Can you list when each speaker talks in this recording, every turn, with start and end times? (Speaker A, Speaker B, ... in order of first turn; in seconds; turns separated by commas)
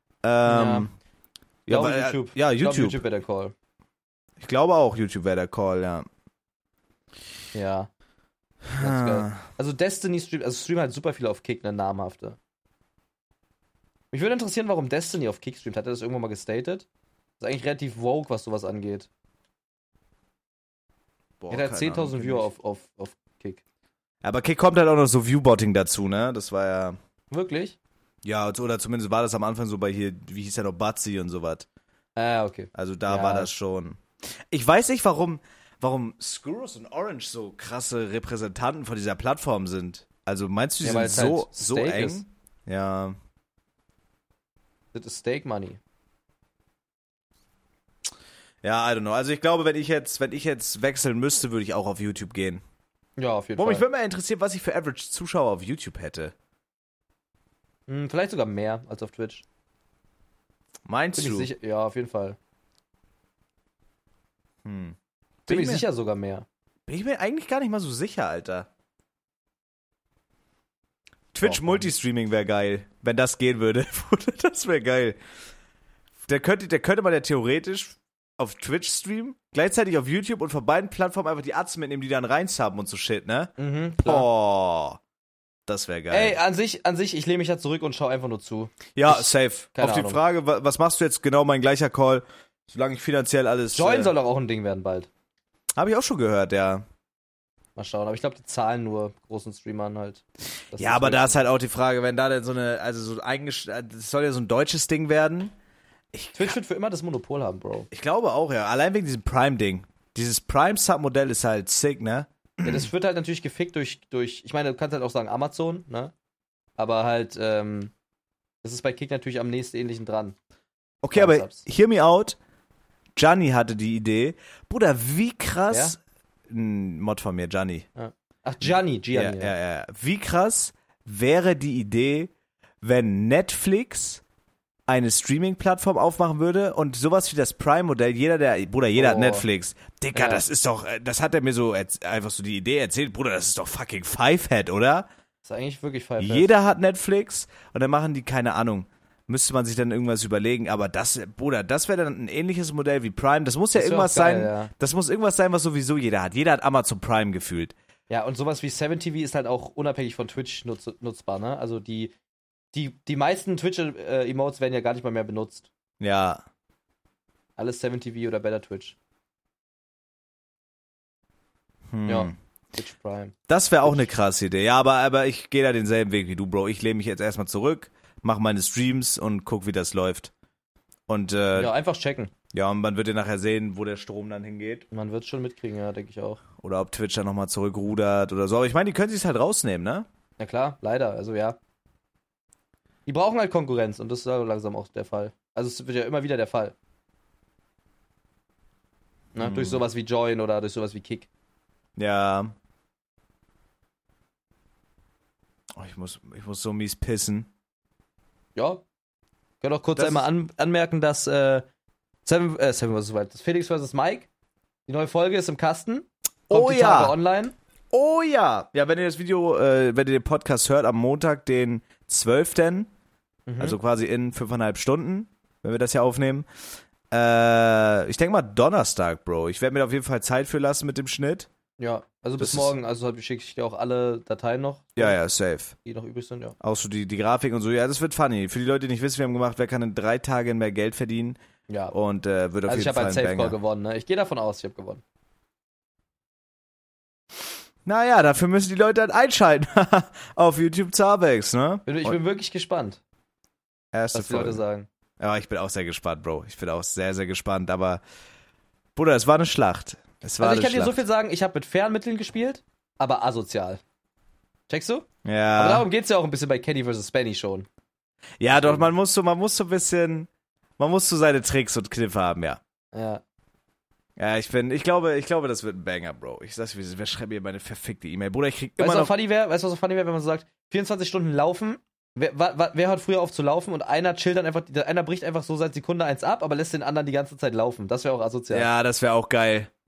Speaker A: 0.2-0.9, Speaker B: 0.4-0.9, Speaker A: 1.7-3.0, Speaker B: 1.7-3.5, Speaker A: 4.4-6.1, Speaker B: 7.5-7.9, Speaker A: 8.7-9.4, Speaker B: 8.8-12.4, Speaker B: 14.1-16.9, Speaker B: 17.4-19.1, Speaker A: 21.4-22.5, Speaker B: 21.5-23.6, Speaker A: 24.2-27.0, Speaker B: 27.3-27.8, Speaker A: 28.2-31.7, Speaker B: 32.2-33.5, Speaker A: 32.7-43.2, Speaker B: 40.8-42.2, Speaker B: 44.9-45.8, Speaker A: 48.6-52.6, Speaker B: 53.2-53.9, Speaker A: 53.6-56.3, Speaker B: 57.9-59.4, Speaker A: 60.9-61.5, Speaker B: 61.2-62.4, Speaker A: 64.6-65.8, Speaker B: 65.5-66.5, Speaker A: 66.9-68.7, Speaker A: 71.3-75.2, Speaker B: 71.4-71.9, Speaker A: 76.3-85.0, Speaker B: 83.6-84.3, Speaker A: 85.7-86.4, Speaker B: 86.1-90.2, Speaker A: 89.0-94.1, Speaker B: 93.7-95.1, Speaker A: 95.8-96.8, Speaker B: 97.8-101.4, Speaker A: 100.8-105.5, Speaker A: 106.1-106.6, Speaker B: 106.4-107.9, Speaker A: 107.9-112.9, Speaker B: 112.6-116.1, Speaker B: 116.8-117.9, Speaker B: 118.6-120.3, Speaker A: 121.0-122.4, Speaker B: 121.1-121.6, Speaker A: 123.2-126.0, Speaker B: 125.7-126.0, Speaker A: 126.5-127.9, Speaker B: 128.0-129.5, Speaker A: 129.1-132.3, Speaker A: 132.8-134.2, Speaker A: 134.9-145.1, Speaker B: 138.9-139.4, Speaker B: 140.1-140.4, Speaker B: 145.4-146.5, Speaker A: 146.2-157.7, Speaker B: 153.7-154.7, Speaker B: 158.1-162.1, Speaker B: 162.7-165.7, Speaker A: 166.0-166.4, Speaker B: 167.6-168.9, Speaker A: 171.9-172.3, Speaker B: 172.1-174.1, Speaker A: 173.5-180.3, Speaker A: 181.1-181.7, Speaker B: 181.6-182.3, Speaker A: 182.5-184.9, Speaker B: 184.9-186.4, Speaker A: 186.6-190.1, Speaker B: 190.4-191.6, Speaker B: 193.1-196.8, Speaker B: 199.3-201.3, Speaker A: 199.4-199.8, Speaker A: 201.9-202.5, Speaker A: 205.8-207.5, Speaker B: 208.6-208.8, Speaker B: 209.6-211.6, Speaker A: 210.0-210.3, Speaker B: 212.3-214.3, Speaker B: 214.9-217.6, Speaker A: 216.5-217.1, Speaker A: 217.9-222.9, Speaker B: 223.5-223.8, Speaker A: 223.6-226.4, Speaker A: 227.1-231.5, Speaker B: 231.8-235.2, Speaker A: 232.4-232.7, Speaker A: 234.9-235.8, Speaker B: 235.8-236.6, Speaker A: 236.6-241.4, Speaker B: 241.7-241.9, Speaker A: 241.9-243.6, Speaker B: 242.7-245.0, Speaker A: 247.8-252.2, Speaker B: 251.9-253.0, Speaker A: 253.9-254.6, Speaker B: 254.1-254.9, Speaker A: 255.2-258.0, Speaker A: 258.9-261.0, Speaker B: 260.4-263.8, Speaker B: 264.7-265.1, Speaker A: 265.2-265.9, Speaker B: 265.6-267.7, Speaker A: 268.4-272.6, Speaker B: 268.5-268.9, Speaker B: 272.9-273.2, Speaker A: 274.2-279.1, Speaker B: 278.8-288.7, Speaker A: 288.5-289.7